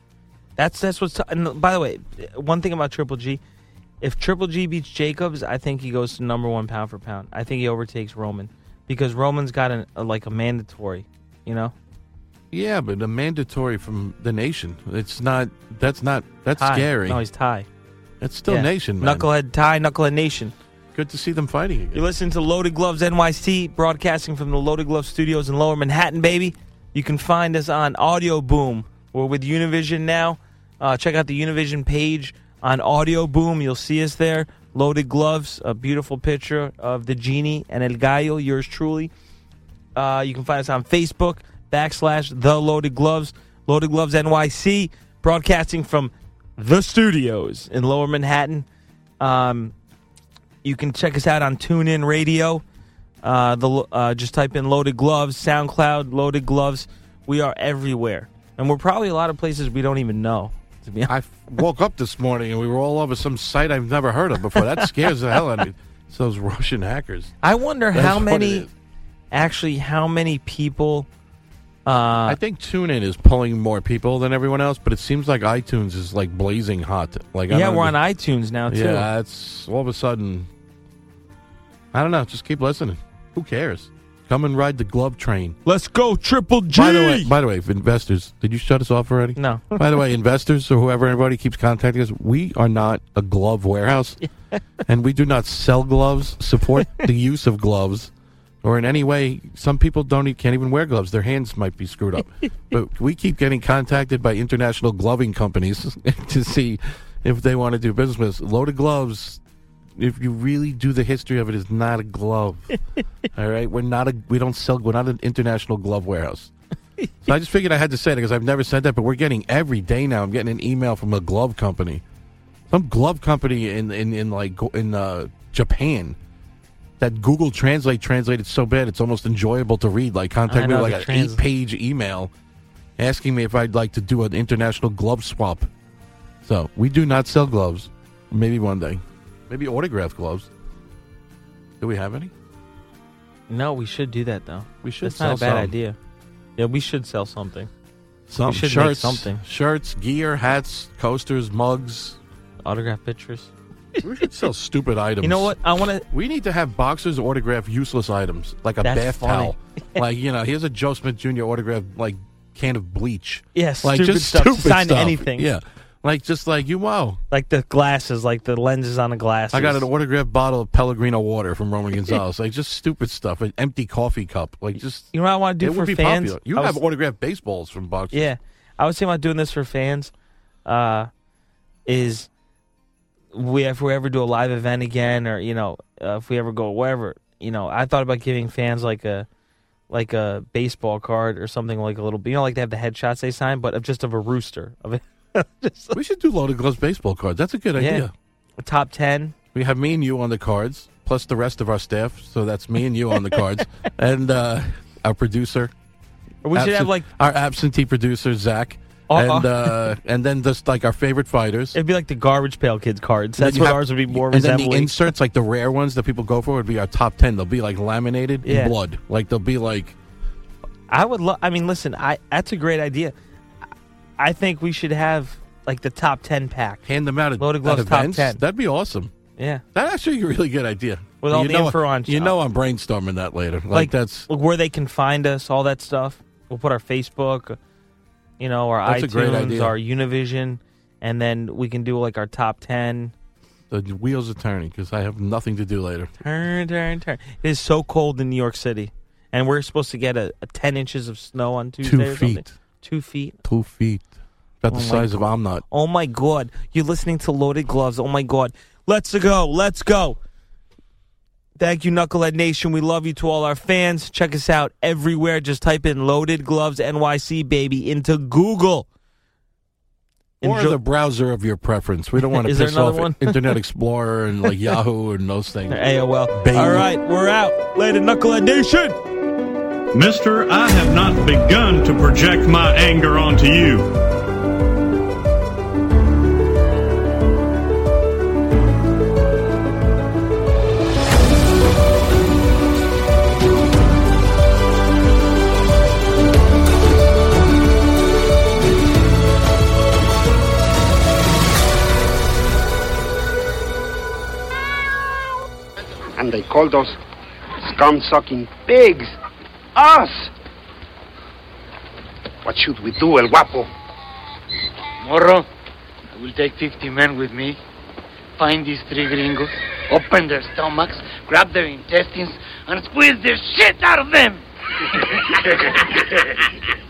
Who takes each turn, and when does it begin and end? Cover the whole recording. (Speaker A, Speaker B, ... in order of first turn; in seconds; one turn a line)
Speaker A: 0.6-3.4
Speaker A: 4.0-11.7
Speaker B: 12.5-17.2
Speaker A: 16.6-17.7
Speaker B: 18.2-19.3
Speaker A: 18.5-20.5
Speaker B: 20.9-22.1
Speaker A: 21.9-39.1
Speaker A: 40.0-48.7
Speaker A: 49.2-49.7
Speaker A: 50.6-52.6
Speaker A: 53.2-61.1
Speaker B: 61.1-67.3
Speaker A: 64.5-65.4
Speaker A: 67.4-68.7
Speaker B: 67.9-68.7
Speaker A: 69.3-71.1
Speaker A: 71.9-72.4
Speaker B: 72.3-78.0
Speaker A: 77.5-79.1
Speaker B: 78.7-80.5
Speaker B: 81.9-85.6
Speaker A: 85.7-87.3
Speaker B: 86.7-94.2
Speaker A: 89.4-90.0
Speaker B: 94.9-98.1
Speaker A: 96.8-97.1
Speaker B: 98.6-109.4
Speaker B: 110.0-112.8
Speaker B: 113.3-116.5
Speaker B: 117.2-122.0
Speaker B: 122.7-126.2
Speaker B: 127.0-132.3
Speaker A: 130.5-131.4
Speaker B: 133.0-135.7
Speaker B: 136.4-140.5
Speaker B: 141.8-142.3
Speaker A: 143.5-146.0
Speaker B: 144.8-145.8
Speaker A: 146.6-147.7
Speaker B: 148.3-152.2
Speaker A: 148.5-149.4
Speaker A: 152.7-154.0
Speaker B: 154.0-155.6
Speaker A: 155.2-156.1
Speaker B: 156.1-167.2
Speaker A: 158.8-159.5
Speaker A: 163.6-165.5
Speaker A: 167.3-169.9
Speaker B: 169.5-178.3
Speaker A: 175.1-176.8
Speaker A: 178.1-180.1
Speaker A: 180.7-181.1
Speaker A: 181.9-182.3
Speaker A: 183.3-189.3
Speaker A: 189.9-196.0
Speaker B: 195.9-198.1
Speaker A: 197.8-198.1
Speaker A: 198.6-199.3
Speaker B: 199.5-205.7
Speaker A: 203.2-203.9
Speaker A: 206.4-207.1
Speaker B: 206.5-211.8
Speaker A: 209.1-209.9
Speaker A: 211.7-215.1
Speaker B: 213.4-220.0
Speaker A: 218.4-218.8
Speaker A: 220.9-223.1
Speaker A: 224.2-226.8
Speaker B: 226.8-229.1
Speaker A: 227.4-228.4
Speaker A: 229.4-229.6
Speaker B: 229.7-234.3
Speaker A: 231.2-232.4
Speaker A: 233.7-237.6
Speaker A: 238.4-243.1
Speaker B: 238.8-239.8
Speaker B: 243.7-246.1
Speaker A: 246.2-253.4
Speaker B: 251.8-252.5
Speaker B: 253.4-254.1
Speaker B: 254.6-255.6
Speaker A: 254.7-260.2
Speaker A: 261.6-268.9
Speaker A: 270.4-270.8
Speaker B: 270.4-275.8
Speaker A: 272.2-273.6
Speaker A: 275.7-279.0
Speaker B: 276.3-276.9
Speaker C: 279.9-283.9
Speaker D: 306.2-307.0
Speaker D: 307.6-309.1
Speaker D: 309.8-310.3
Speaker D: 312.4-313.7
Speaker E: 315.0-315.5
Speaker E: 316.1-317.6
Speaker E: 318.4-324.4
Speaker E: 325.1-326.0